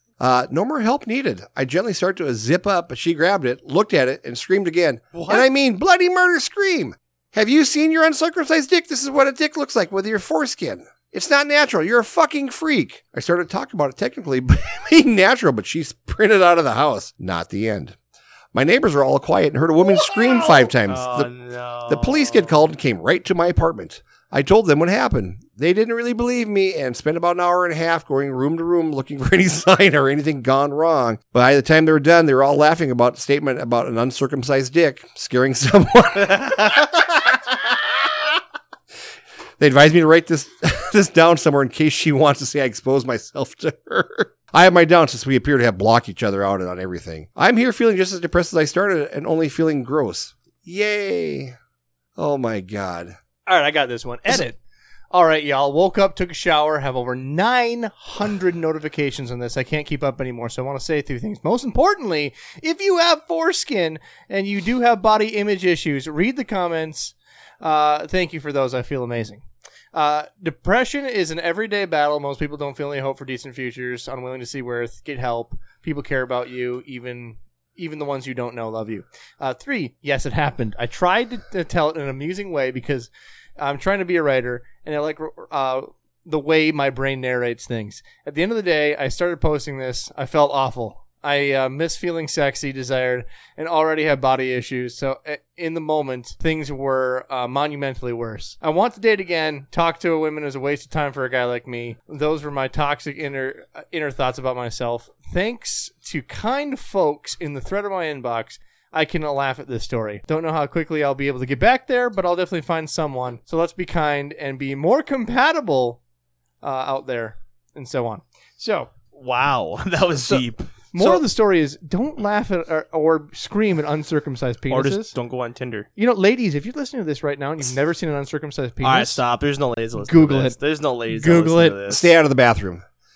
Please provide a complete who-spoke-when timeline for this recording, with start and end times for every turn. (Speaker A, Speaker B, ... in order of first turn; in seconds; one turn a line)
Speaker A: 0.2-18.0
Speaker B: 5.1-5.5
Speaker A: 18.5-21.3
Speaker B: 20.4-22.6
Speaker A: 21.9-38.1
Speaker A: 39.6-51.5
Speaker A: 52.1-53.2
Speaker C: 53.5-54.6
Speaker C: 55.1-69.4
Speaker C: 69.9-116.0
Speaker C: 116.6-118.9
Speaker B: 119.1-120.7
Speaker C: 120.9-125.1
Speaker B: 124.7-125.9
Speaker C: 126.0-129.2
Speaker B: 128.8-132.1
Speaker C: 130.0-130.6
Speaker C: 131.1-131.8
Speaker A: 131.9-132.8